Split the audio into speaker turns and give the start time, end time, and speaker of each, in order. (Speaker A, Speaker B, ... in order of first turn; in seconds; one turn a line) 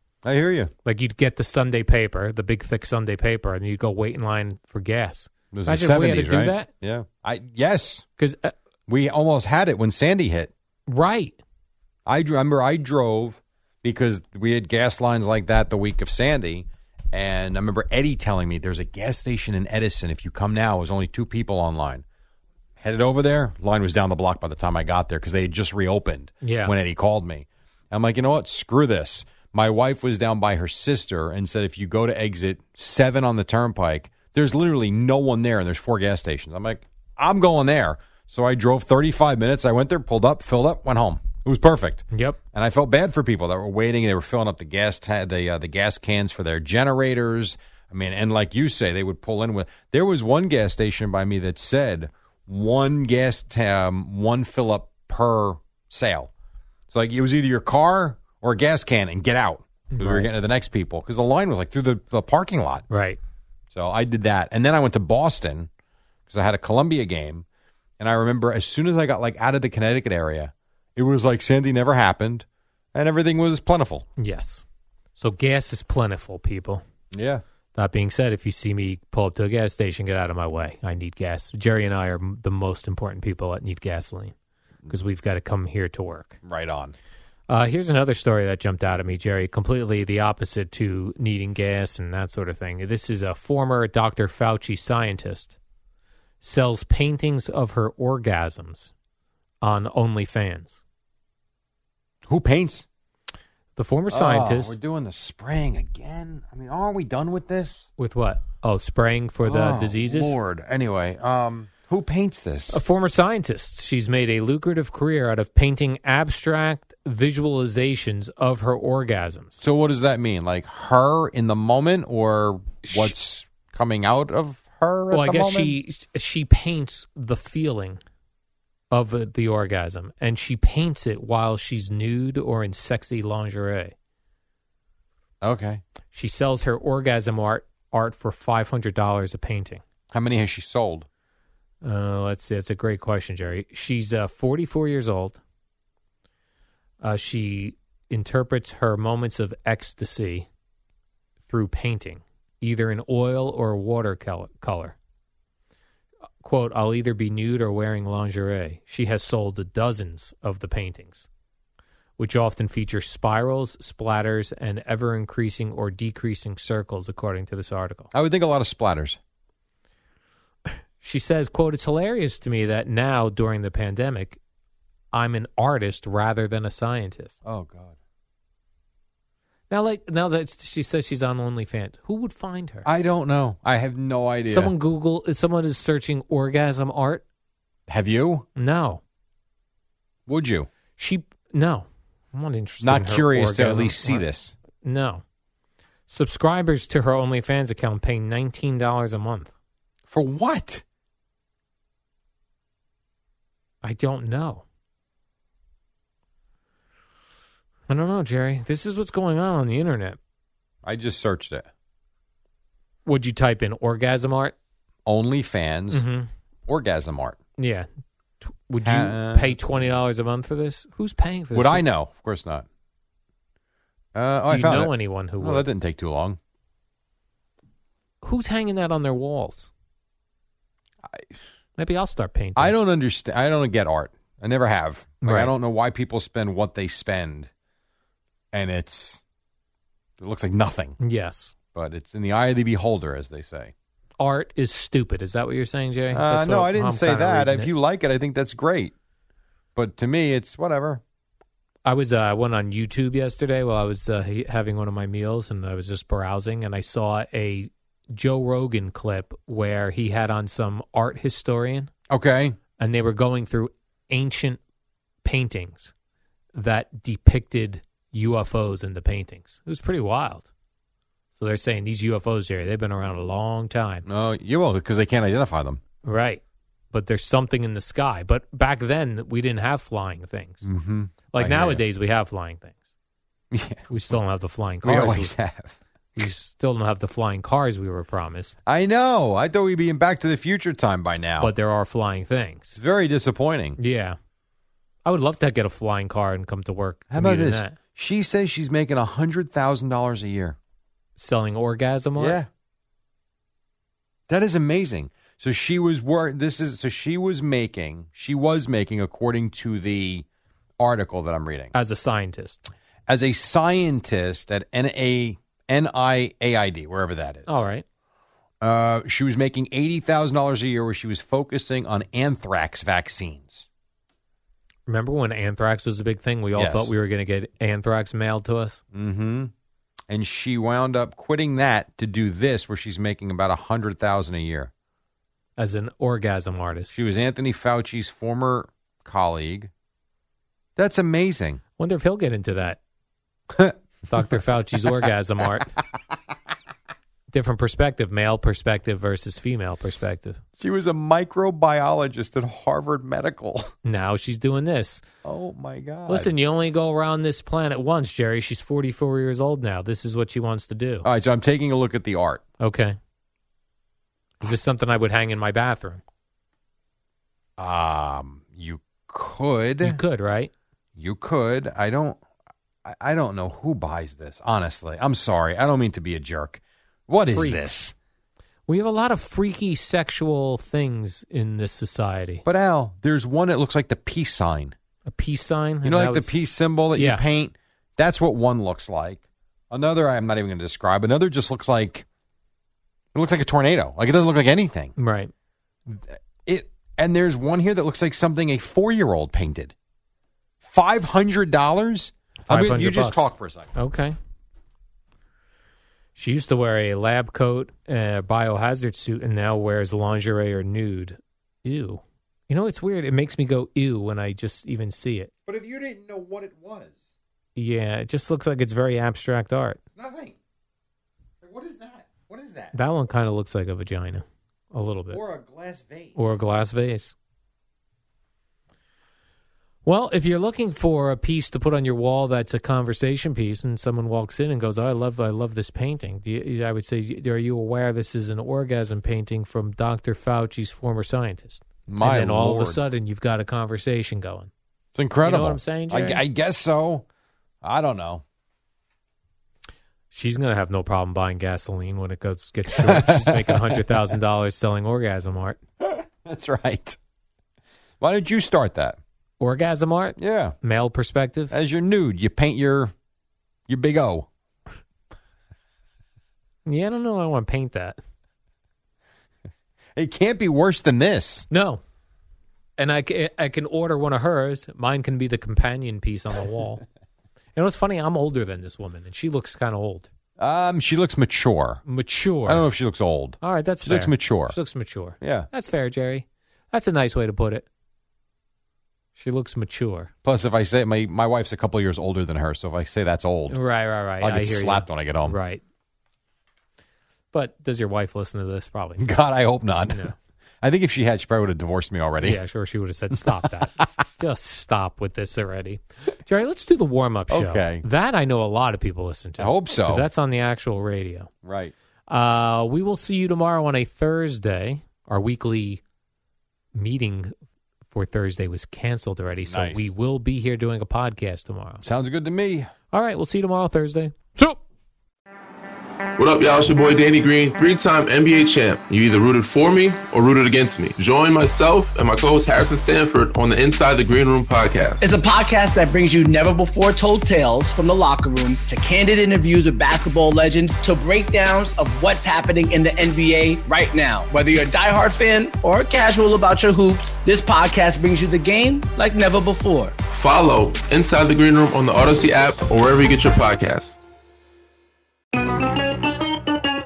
Speaker A: 0.2-0.7
Speaker B: 0.8-6.7
Speaker A: 5.5-8.1
Speaker B: 8.2-8.5
Speaker A: 8.9-10.5
Speaker B: 10.9-11.4
Speaker A: 12.1-22.0
Speaker A: 22.8-56.3
Speaker B: 26.4-26.7
Speaker B: 42.1-42.4
Speaker A: 56.9-62.9
Speaker B: 59.9-60.3
Speaker B: 62.9-63.2
Speaker A: 63.7-65.7
Speaker A: 66.3-67.5
Speaker A: 68.0-74.1
Speaker B: 74.2-74.6
Speaker B: 75.2-76.8
Speaker A: 77.1-77.4
Speaker B: 77.8-84.3
Speaker B: 84.9-86.4
Speaker A: 86.4-87.0
Speaker B: 87.5-95.6
Speaker B: 96.4-98.9
Speaker B: 99.6-100.8
Speaker A: 102.2-102.9
Speaker B: 103.8-104.8
Speaker A: 104.1-107.9
Speaker B: 108.0-110.4
Speaker A: 109.4-112.8
Speaker B: 112.7-119.6
Speaker A: 119.6-125.8
Speaker B: 122.8-123.1
Speaker B: 125.1-128.0
Speaker B: 128.9-133.9
Speaker A: 135.4-135.8
Speaker B: 136.1-139.8
Speaker A: 140.1-141.1
Speaker B: 141.8-145.4
Speaker B: 147.0-150.5
Speaker B: 151.5-154.9
Speaker B: 156.4-161.3
Speaker B: 162.2-168.1
Speaker A: 168.1-169.2
Speaker B: 170.7-174.4
Speaker B: 175.1-177.4
Speaker A: 177.4-178.0
Speaker B: 179.7-182.9
Speaker A: 182.8-184.7
Speaker B: 184.4-187.2
Speaker A: 187.9-188.5
Speaker B: 188.6-189.0
Speaker A: 190.3-190.7
Speaker B: 191.0-194.2
Speaker A: 192.8-194.5
Speaker B: 194.8-195.2
Speaker B: 196.1-199.5
Speaker A: 200.1-200.8
Speaker B: 203.8-204.6
Speaker B: 207.9-210.2
Speaker A: 210.8-211.7
Speaker B: 213.1-214.6
Speaker A: 215.1-216.1
Speaker B: 215.9-216.3
Speaker A: 216.7-217.4
Speaker B: 217.6-217.9
Speaker B: 218.4-221.8
Speaker A: 218.8-219.6
Speaker A: 221.5-222.7
Speaker A: 224.2-226.4
Speaker B: 224.5-225.7
Speaker B: 228.2-229.7
Speaker B: 231.8-232.7
Speaker A: 232.6-237.5
Speaker B: 235.2-235.5
Speaker A: 238.5-239.2
Speaker A: 240.2-241.0
Speaker B: 241.0-241.5
Speaker A: 241.7-243.7
Speaker B: 244.2-247.7
Speaker A: 246.1-248.9
Speaker A: 249.8-251.0
Speaker B: 251.8-261.9
Speaker A: 262.1-262.6
Speaker B: 262.8-264.6
Speaker B: 265.2-265.9
Speaker B: 266.6-270.5
Speaker B: 271.4-274.1
Speaker A: 274.1-275.8
Speaker B: 276.0-276.4
Speaker B: 276.9-280.7
Speaker A: 280.6-281.8
Speaker B: 281.3-282.8
Speaker A: 283.5-283.9
Speaker B: 283.9-285.3
Speaker A: 284.8-285.8
Speaker B: 286.1-288.6
Speaker A: 288.7-291.5
Speaker B: 291.4-292.8
Speaker A: 292.8-293.8
Speaker B: 293.8-294.2
Speaker B: 295.1-297.8
Speaker A: 297.1-300.6
Speaker B: 301.2-302.4
Speaker A: 302.2-302.5
Speaker A: 304.3-310.2
Speaker A: 310.8-311.7
Speaker B: 311.7-312.7
Speaker A: 313.1-317.6
Speaker B: 317.5-317.8
Speaker A: 318.6-323.7
Speaker B: 324.9-328.8
Speaker A: 326.6-326.9
Speaker A: 328.9-329.5
Speaker A: 330.1-334.7
Speaker B: 335.6-336.9
Speaker A: 336.9-339.7
Speaker A: 340.8-341.6
Speaker B: 341.8-342.8
Speaker A: 343.5-344.3
Speaker B: 344.1-345.7
Speaker B: 347.3-350.4
Speaker A: 350.6-353.7
Speaker B: 353.8-355.0
Speaker A: 355.2-356.3
Speaker B: 356.1-361.1
Speaker A: 361.0-362.4
Speaker B: 362.6-363.0
Speaker B: 364.4-366.0
Speaker A: 367.6-370.0
Speaker B: 369.8-370.5
Speaker A: 371.0-372.2
Speaker A: 372.9-377.9
Speaker B: 377.3-377.7
Speaker B: 378.7-382.4
Speaker A: 382.4-384.8
Speaker B: 385.1-386.3
Speaker A: 385.8-392.1
Speaker B: 386.9-387.2
Speaker A: 393.1-394.9
Speaker B: 395.0-395.3
Speaker A: 395.9-399.7
Speaker A: 400.6-403.7
Speaker B: 402.5-404.1
Speaker B: 406.2-415.3
Speaker A: 415.5-417.1
Speaker B: 417.6-419.8
Speaker A: 419.9-420.4
Speaker A: 421.4-422.7
Speaker B: 422.7-425.2
Speaker A: 425.1-426.4
Speaker B: 426.2-427.1
Speaker B: 429.9-444.5
Speaker A: 441.9-442.8
Speaker A: 444.9-447.1
Speaker B: 445.2-446.2
Speaker A: 447.6-448.2
Speaker B: 450.1-455.6
Speaker A: 452.7-454.0
Speaker A: 455.8-457.0
Speaker A: 458.0-459.0
Speaker B: 459.4-461.5
Speaker A: 460.2-460.6
Speaker A: 461.5-462.9
Speaker A: 463.7-464.3
Speaker B: 466.7-468.0
Speaker A: 470.0-471.5
Speaker B: 471.5-471.8
Speaker B: 472.8-476.8
Speaker B: 477.6-480.1
Speaker A: 480.4-481.8
Speaker B: 481.9-482.7
Speaker A: 482.5-484.6
Speaker B: 483.4-487.7
Speaker A: 485.2-485.5
Speaker B: 489.2-490.1
Speaker A: 490.2-493.6
Speaker B: 493.5-495.6
Speaker A: 494.2-495.4
Speaker B: 497.3-499.1
Speaker A: 499.0-502.4
Speaker B: 499.9-500.1
Speaker B: 502.2-511.3
Speaker A: 507.3-507.9
Speaker A: 509.4-510.1
Speaker A: 511.4-511.7
Speaker B: 512.1-515.8
Speaker B: 516.8-517.3
Speaker B: 517.9-521.8
Speaker A: 519.5-519.9
Speaker A: 521.8-522.7
Speaker B: 522.9-524.6
Speaker C: 526.2-535.1
Speaker D: 535.0-549.9
Speaker C: 550.1-554.0